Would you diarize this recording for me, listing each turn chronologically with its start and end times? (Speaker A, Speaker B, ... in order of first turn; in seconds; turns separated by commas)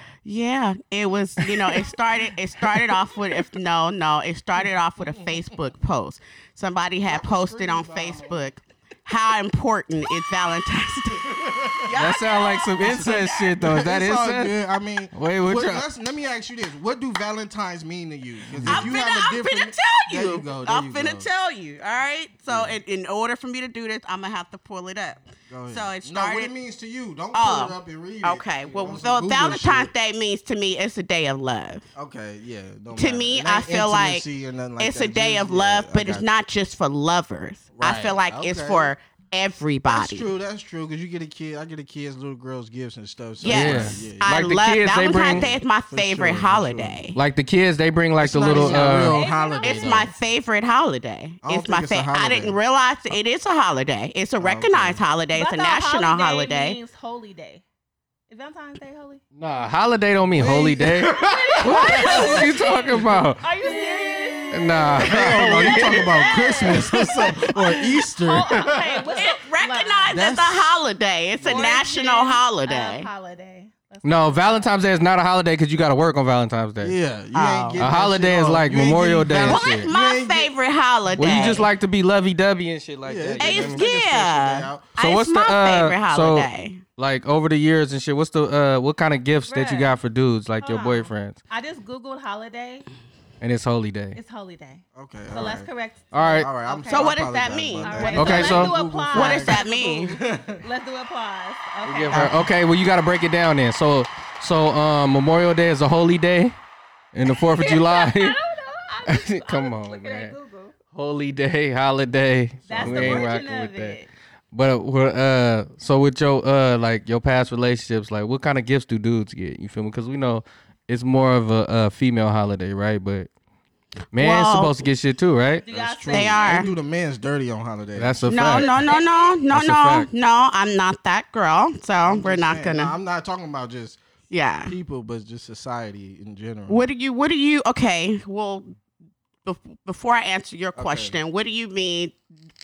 Speaker A: 0.2-13.5, Speaker B: 1.6-1.9, Speaker B: 7.0-8.5, Speaker B: 11.2-11.9, Speaker C: 11.9-14.5, Speaker B: 12.8-21.3, Speaker C: 15.1-15.8, Speaker C: 18.5-18.9, Speaker A: 18.7-26.5, Speaker B: 22.5-22.8, Speaker B: 25.5-29.9, Speaker A: 27.3-31.9, Speaker B: 31.9-36.3, Speaker A: 32.9-34.3, Speaker A: 34.8-40.3, Speaker B: 37.8-38.9, Speaker B: 39.9-44.6, Speaker A: 43.4-47.2, Speaker C: 43.5-45.5, Speaker B: 45.1-47.0, Speaker C: 47.2-49.2, Speaker B: 48.2-50.1, Speaker A: 48.5-49.1, Speaker D: 49.1-50.1, Speaker A: 49.6-56.8, Speaker B: 51.4-52.6, Speaker B: 54.4-55.0, Speaker D: 55.3-57.6, Speaker D: 58.3-59.2, Speaker C: 59.4-63.4, Speaker B: 60.4-62.5, Speaker D: 61.1-70.2, Speaker A: 63.6-64.8, Speaker C: 64.5-66.1, Speaker B: 65.0-69.2, Speaker A: 69.2-73.1, Speaker B: 70.1-70.8, Speaker D: 71.4-74.7, Speaker C: 74.0-77.0, Speaker B: 76.8-80.5, Speaker A: 77.3-77.9, Speaker C: 77.8-79.9, Speaker A: 79.4-81.6, Speaker B: 81.1-81.6, Speaker C: 81.2-83.8, Speaker B: 83.0-85.0, Speaker A: 83.4-86.8, Speaker C: 85.0-91.4, Speaker D: 89.5-89.9, Speaker D: 90.6-92.9, Speaker C: 93.4-94.2, Speaker D: 94.2-97.2, Speaker B: 95.0-95.7, Speaker C: 96.1-96.5, Speaker B: 96.4-100.6, Speaker A: 96.9-100.2, Speaker D: 97.8-102.2, Speaker C: 98.2-98.8, Speaker C: 101.8-106.6, Speaker A: 102.1-102.4, Speaker C: 107.1-108.4, Speaker D: 107.2-110.7, Speaker C: 109.1-110.4, Speaker C: 110.9-114.0, Speaker D: 112.7-114.1, Speaker B: 112.8-113.3, Speaker C: 114.5-123.3, Speaker C: 124.1-125.6, Speaker A: 124.2-124.8, Speaker D: 125.6-126.7, Speaker B: 125.7-128.3, Speaker A: 126.1-126.7, Speaker C: 128.0-128.9, Speaker A: 128.3-132.9, Speaker D: 128.5-129.5, Speaker C: 129.5-130.1, Speaker B: 132.0-134.0, Speaker A: 134.3-134.8, Speaker B: 134.7-136.9, Speaker A: 136.7-138.8, Speaker A: 139.4-142.2, Speaker B: 140.8-141.2